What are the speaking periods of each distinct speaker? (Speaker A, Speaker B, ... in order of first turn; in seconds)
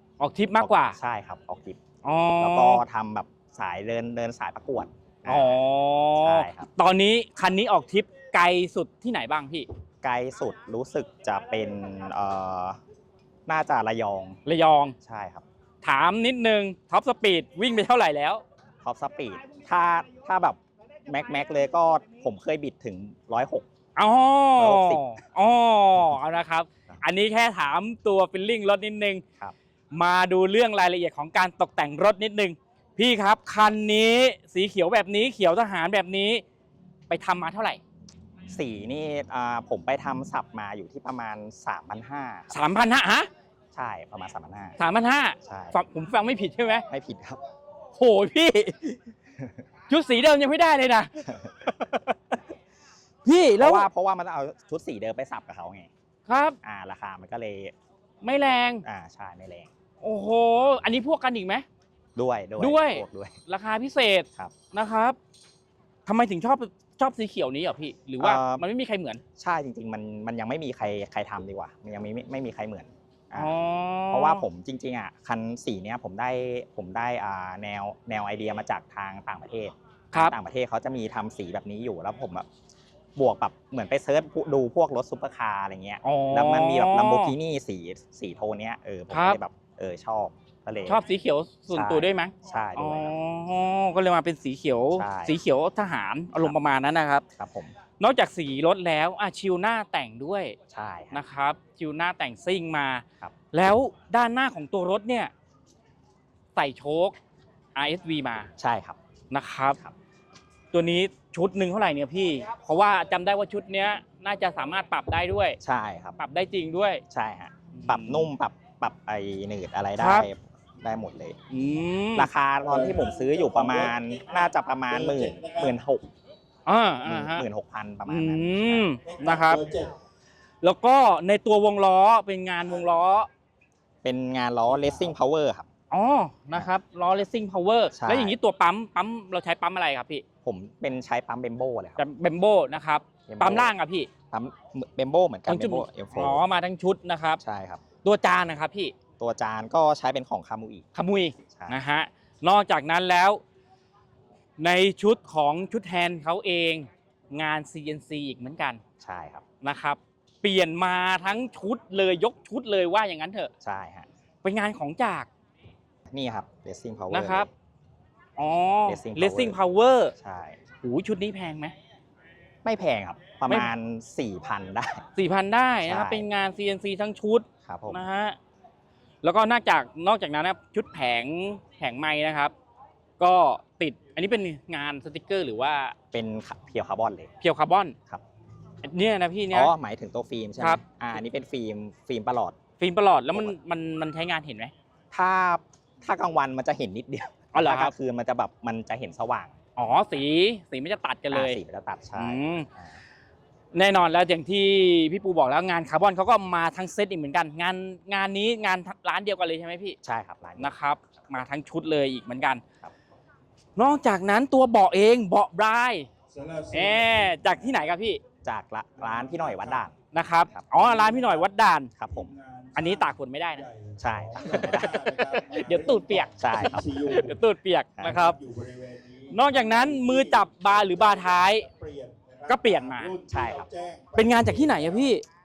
Speaker A: 0.2-1.0, 2.0-2.8, 5.3-9.7, 14.5-15.0, 15.8-18.4, 24.0-29.2, 29.9-36.4, 37.1-37.8, 42.5-43.3, 44.8-46.9, 47.9-49.0, 49.9-52.2, 53.2-53.9, 56.3-56.6, 58.2-58.9, 60.0-61.6, 62.6-65.2, 66.1-69.2, 73.4-74.5, 86.0-87.3, 89.1-89.4, 90.9-97.2, 98.0-100.6, 101.1-105.3, 106.5-107.1, 107.8-108.5, 109.3-109.8, 110.7-115.6, 116.2-117.0, 117.7-118.3, 120.0-120.3, 121.5-122.3, 126.7-127.5, 128.1-129.7, 130.6-133.3, 135.9-140.2, 142.0-144.1, 145.5-147.4, 148.0-149.0, 150.9-153.4, 154.6-158.8, 159.6-163.5, 164.4-165.3, 167.1-167.5, 168.4-170.1, 170.8-171.7, 175.2-178.4, 179.2-182.5, 183.2-185.9, 187.4-188.0, 188.8-189.7, 192.8-194.7, 197.5-197.9, 199.8-201.6, 202.2-202.7, 203.7-210.0, 210.6-212.6, 213.8-216.1, 216.7-218.2, 220.1-221.9, 222.8-223.7, 224.4-228.4, 229.3-231.7, 232.5-233.2, 234.2-235.2
Speaker B: 0.6-1.8, 2.4-5.6, 6.2-6.7, 10.0-12.8, 13.5-14.4, 15.0-15.4, 18.8-23.7, 24.6-25.2, 38.5-42.6, 43.7-44.8, 45.4-45.8, 46.9-47.4, 51.3-51.5, 53.6-55.9, 56.6-57.7, 58.9-59.7, 62.2-63.4, 68.2-68.7, 69.4-73.5, 74.1-82.5, 83.2-91.0, 91.7-93.1, 94.9-95.4, 97.4-97.8, 100.7-101.2, 108.6-109.0, 115.6-116.2, 117.1-121.4, 122.2-126.1, 127.0-128.9, 134.0-135.7, 137.9-138.4, 140.4-142.1, 143.3-143.8, 144.3-146.4, 147.4-147.8, 149.2-150.8, 151.5-151.8, 159.0-159.4, 163.6-164.1, 166.1-167.5, 168.9-169.6, 170.2-170.6, 172.7-175.0, 175.8-176.3, 177.6-178.0, 186.1-187.3, 189.5-192.6, 195.1-199.7, 201.3-203.0, 210.0-210.7, 218.4-219.9, 220.5-221.0, 222.0-222.3, 224.0-225.2, 226.4-226.9, 228.0-228.3, 233.3-233.7
Speaker C: 122.7-125.7, 129.1-129.9, 216.3-217.6, 219.0-219.9, 220.9-221.5, 222.1-227.4, 228.2-235.2